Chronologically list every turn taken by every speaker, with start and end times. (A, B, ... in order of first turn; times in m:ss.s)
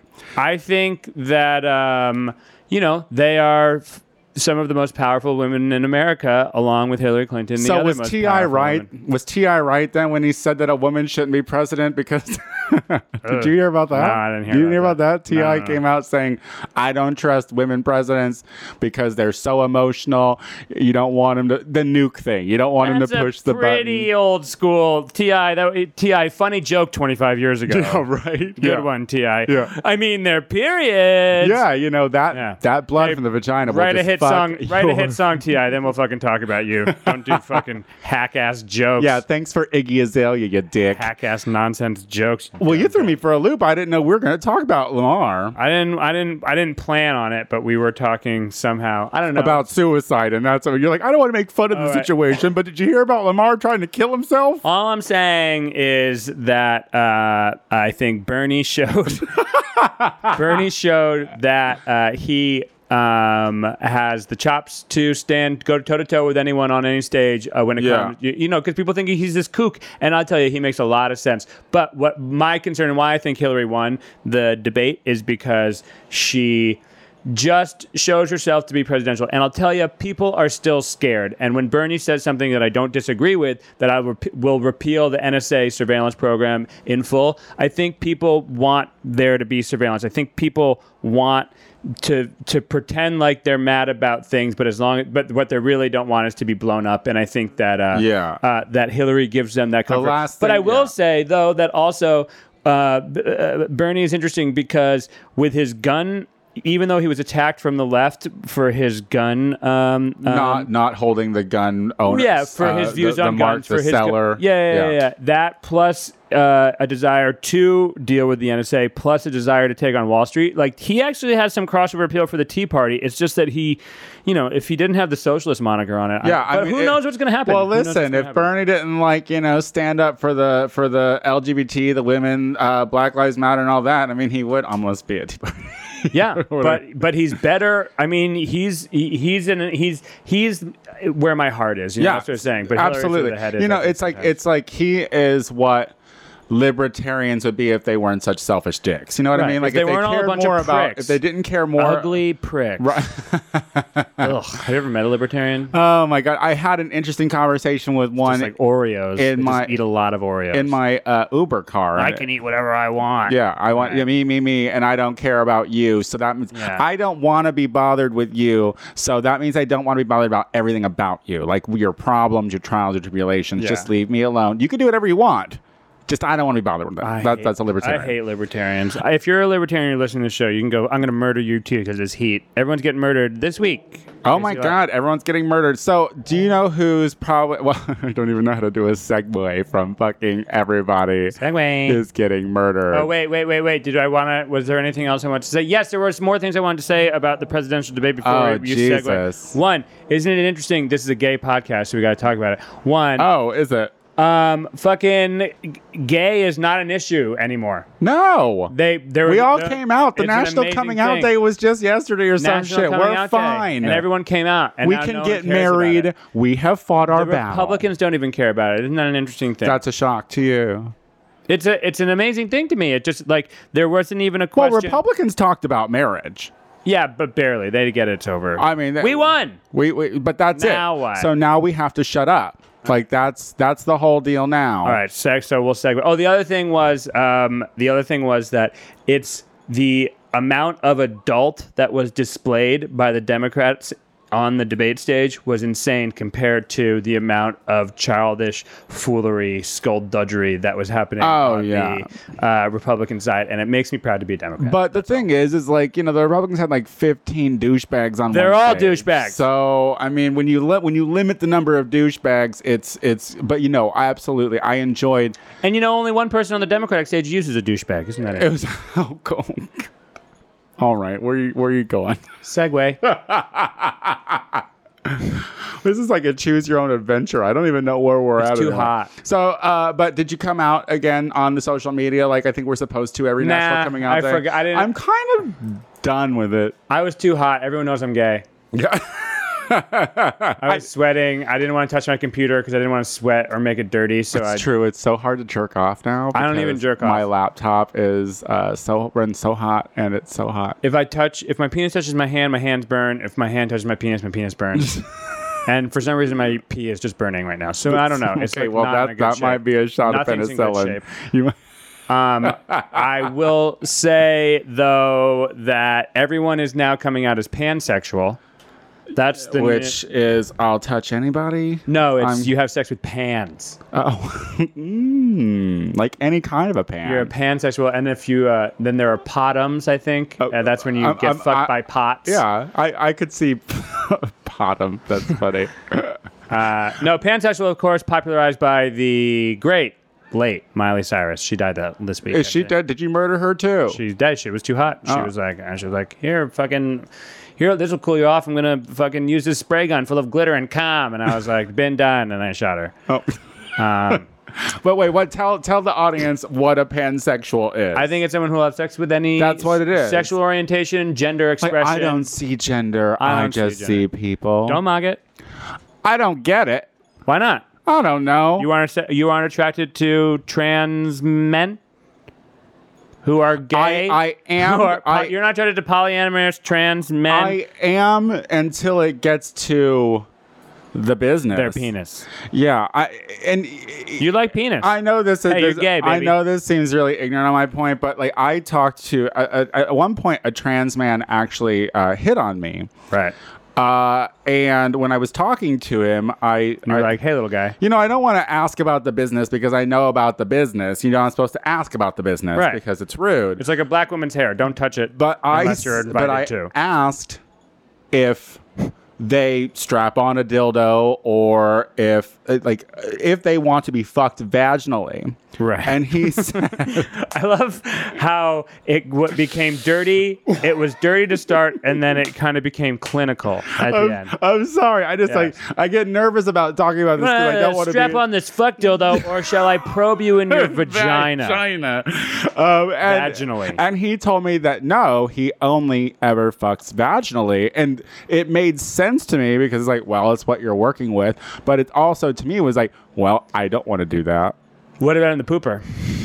0:00.4-0:08.9 A
0:07.6-0:24.1 B
0:13.2-0:15.8 A
0:22.8-0:28.1 A
0:27.7-0:28.9 B
0:28.6-0:31.6 A
0:29.4-0:29.7 B
0:31.4-0:35.4 B
0:32.3-0:39.2 A
0:36.9-0:37.6 B
0:39.0-0:41.1 B
0:40.9-0:43.2 A
0:42.6-0:45.6 B
0:45.6-0:49.6 A
0:49.3-0:54.6 B
0:51.7-0:52.1 A
0:54.6-0:59.5 A
0:59.5-1:00.4 B
1:00.3-1:50.7 A
1:07.8-1:08.1 B
1:37.9-1:38.4 B
1:39.9-1:40.9 B
1:50.2-1:55.0 B
1:52.0-2:08.5 A
2:06.2-2:16.8 B
2:16.1-2:24.3 A
2:22.0-2:25.9 B
2:26.5-2:32.2 B
2:29.3-2:31.2 A
2:31.8-2:32.9 A
2:32.8-2:34.3 B
2:34.2-2:35.7 A
2:35.7-2:38.5 B
2:38.2-2:40.8 A
2:39.2-2:39.8 B
2:40.5-2:42.2 B
2:42.0-2:44.0 A
2:43.3-2:58.1 B
2:46.5-2:46.8 A
2:53.6-2:53.9 A
2:57.0-3:04.8 A
3:04.2-3:13.1 B
3:11.4-3:12.0 A
3:12.9-3:23.3 A
3:18.2-3:19.5 B
3:23.2-3:23.9 B
3:24.2-3:27.9 A
3:28.0-3:28.7 B
3:28.7-3:31.3 A
3:29.2-3:34.0 B
3:32.4-3:36.1 A
3:34.8-3:37.8 B
3:37.1-3:39.8 A
3:39.6-3:40.9 B
3:41.5-3:45.0 A
3:44.6-3:46.5 B
3:46.8-3:49.6 A
3:48.6-3:55.0 B
3:50.5-3:51.3 A
3:54.8-4:15.3 A
4:11.2-4:12.1 B
4:14.6-4:25.4 B
4:18.3-4:19.4 A
4:25.6-4:28.5 A
4:28.3-4:29.9 B
4:30.8-4:32.2 B
4:32.4-4:33.0 A
4:33.0-4:46.8 B
4:38.4-4:39.1 A
4:43.4-4:44.9 A
4:46.9-4:48.4 A
4:48.7-4:50.8 B
4:50.6-4:54.7 A
4:54.3-5:00.8 B
4:56.3-4:57.3 A
5:00.8-5:05.0 A
5:05.6-5:11.0 A
5:07.9-5:11.5 B
5:12.1-5:18.4 A
5:12.4-5:13.1 B
5:19.1-5:20.0 A
5:19.5-5:22.5 B
5:21.9-5:23.8 A
5:23.9-5:27.3 B
5:27.0-5:32.4 A
5:30.4-5:31.7 B
5:32.2-5:36.2 B
5:36.5-5:42.7 A
5:42.3-5:44.0 B
5:43.9-5:47.0 A
5:45.0-5:45.3 B
5:47.6-5:52.9 A
5:53.1-5:53.3 B
5:53.8-5:54.3 A
5:54.1-5:58.1 B
5:57.9-6:02.2 A
5:59.4-6:00.3 B
6:01.6-6:04.8 B
6:03.2-6:04.1 A
6:04.6-6:05.2 A
6:06.0-6:06.9 B
6:07.3-6:07.6 A
6:07.8-6:08.7 B
6:08.6-6:11.8 A
6:13.2-6:17.6 A
6:13.7-6:15.3 B
6:17.3-6:20.3 B
6:20.9-6:21.8 B
6:21.5-6:22.3 A
6:22.5-6:24.3 B
6:24.2-6:24.9 A
6:24.8-6:32.9 B
6:25.5-6:26.4 A
6:33.1-6:33.4 A
6:33.8-6:37.1 B
6:36.8-6:37.8 A
6:37.8-6:43.6 B
6:42.5-6:42.8 A
6:43.6-6:46.7 A
6:45.1-6:47.4 B
6:48.1-6:57.1 B
6:55.6-7:04.3 A
7:03.7-7:08.2 B
7:05.2-7:05.5 A
7:07.2-7:11.6 A
7:09.1-7:09.9 B
7:10.5-7:24.6 B
7:13.0-7:13.8 A
7:25.0-7:26.0 A